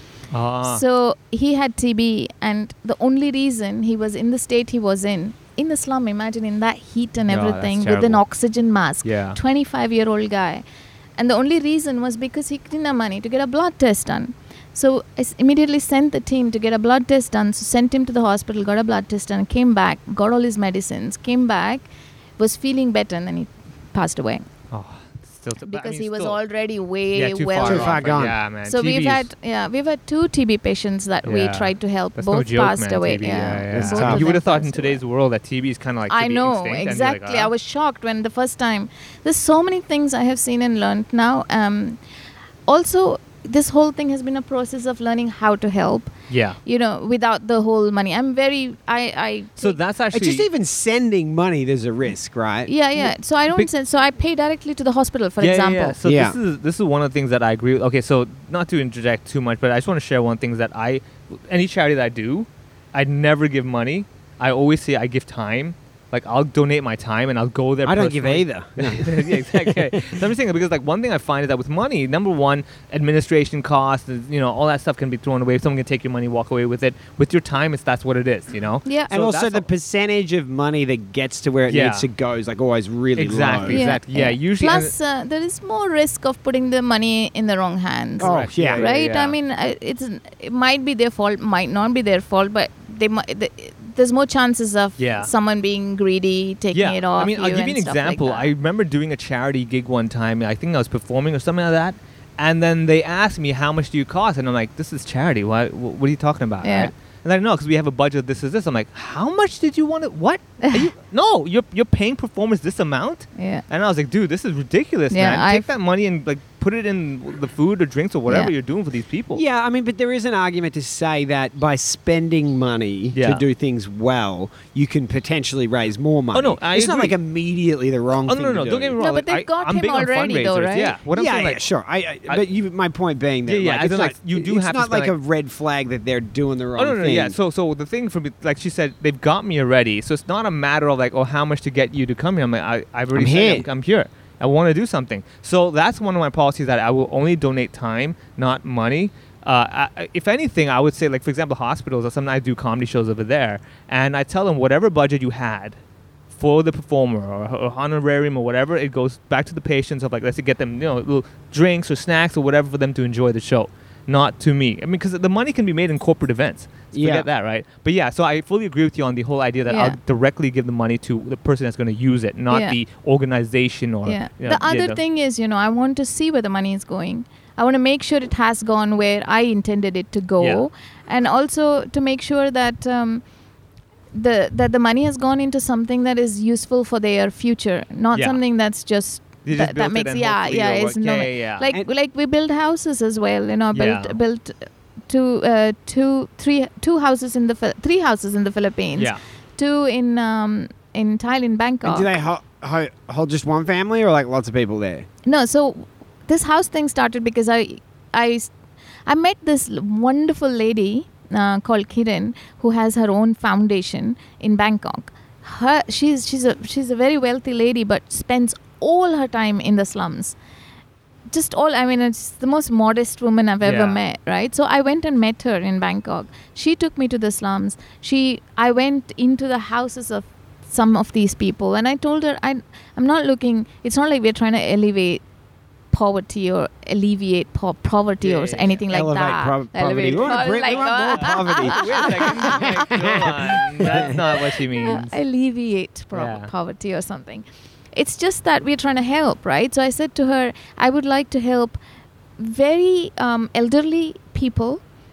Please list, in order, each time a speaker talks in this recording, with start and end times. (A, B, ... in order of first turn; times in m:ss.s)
0:00.3-0:00.8 A
0:00.6-0:10.6 B
0:07.3-0:08.2 A
0:09.0-0:09.4 A
0:11.2-0:21.9 B
0:22.4-0:24.5 B
0:24.7-0:26.4 A
0:25.6-0:35.0 B
0:27.1-0:29.3 A
0:27.6-0:28.4 C
0:31.2-0:37.5 A
0:33.7-0:34.3 C
0:36.1-0:42.0 B
0:42.7-0:46.1 B
0:46.3-0:46.6 A
0:46.6-0:49.8 B
0:49.6-0:50.5 A
0:50.1-0:52.7 C
0:52.7-0:56.0 B
0:53.0-0:53.7 A
0:55.4-1:19.7 A
0:56.0-0:56.4 C
1:07.8-1:10.2 C
1:18.8-1:19.1 B
1:19.1-1:23.9 C
1:21.7-1:22.1 A
1:23.2-1:24.9 A
1:23.7-1:38.5 B
1:28.2-1:29.4 A
1:28.2-1:28.9 C
1:35.0-1:35.3 A
1:36.7-1:59.4 A
1:46.6-1:46.9 B
1:50.6-1:50.9 B
1:53.4-1:53.6 B
1:55.1-1:55.7 B
1:58.3-1:58.5 B
1:59.3-2:09.0 C
2:03.1-2:03.4 A
2:06.3-2:07.2 A
2:08.2-2:11.7 A
2:09.0-2:11.0 B
2:11.1-2:17.4 C
2:13.5-2:15.1 A
2:16.8-2:35.8 A
2:23.1-2:23.7 C
2:36.3-2:55.0 A
2:46.9-2:47.3 C
2:49.7-2:50.0 B
2:52.5-2:52.8 B
2:54.1-3:03.2 B
3:00.4-3:00.6 A
3:04.1-3:22.1 B
3:08.1-3:08.4 A
3:09.4-3:11.7 A
3:13.7-3:14.2 A
3:21.8-3:25.1 C
3:25.3-3:28.5 B
3:29.1-3:40.4 B
3:41.3-3:55.2 B
3:43.6-3:44.0 A
3:55.9-4:02.9 B
3:58.2-3:58.8 A
3:58.9-4:04.2 C
3:59.9-4:05.2 A
4:04.1-4:11.8 B
4:06.1-4:06.5 A
4:12.4-4:14.8 B